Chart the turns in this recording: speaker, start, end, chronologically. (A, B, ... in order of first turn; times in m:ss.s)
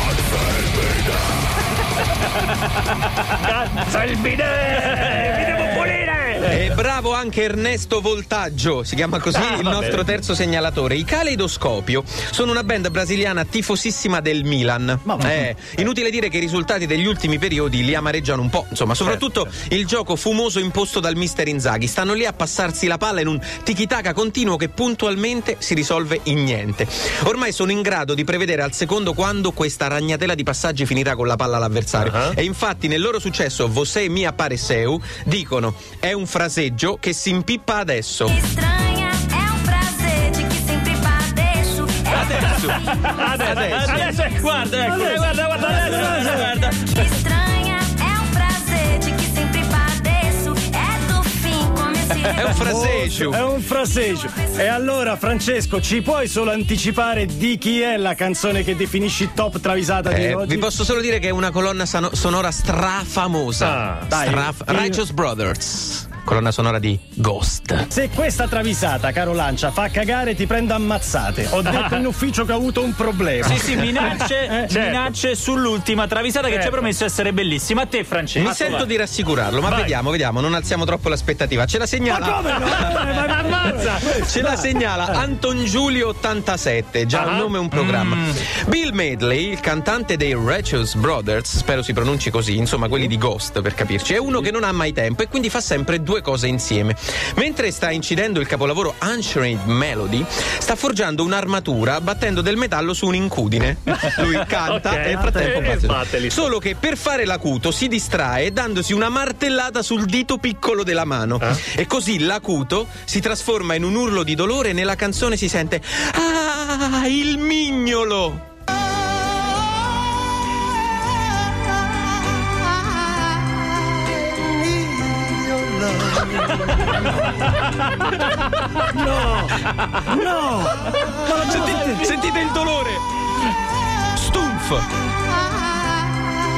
0:03.4-0:06.6 A
0:04.9-0:05.9 B
0:06.4-0:38.4 C
0:09.3-0:10.0 A
0:15.1-0:15.4 D
0:32.0-0:32.4 A
0:38.3-0:43.3 E
0:42.1-0:44.1 C
0:42.3-0:47.1 B
0:43.1-0:44.4 A
0:44.8-0:46.6 D
0:46.8-0:52.5 E
0:52.3-0:53.4 C
0:52.6-1:00.7 D
1:00.1-1:07.9 C
1:03.6-1:04.1 A
1:04.1-1:05.0 D
1:07.9-1:14.7 D
1:11.7-1:12.0 A
1:13.4-1:18.9 B
1:14.7-1:15.1 A
1:16.5-1:16.9 A
1:18.4-1:23.4 C
1:19.7-1:19.9 A
1:22.1-1:24.8 D
1:22.8-1:24.2 A
1:24.0-1:58.4 C
1:27.1-1:27.6 A
1:27.7-1:28.4 B
1:44.6-1:46.5 A
1:45.3-1:45.6 D
2:06.0-2:06.6 D
2:08.9-2:12.1 D
2:11.4-2:13.0 C
2:11.5-2:12.0 B
2:14.1-2:14.9 C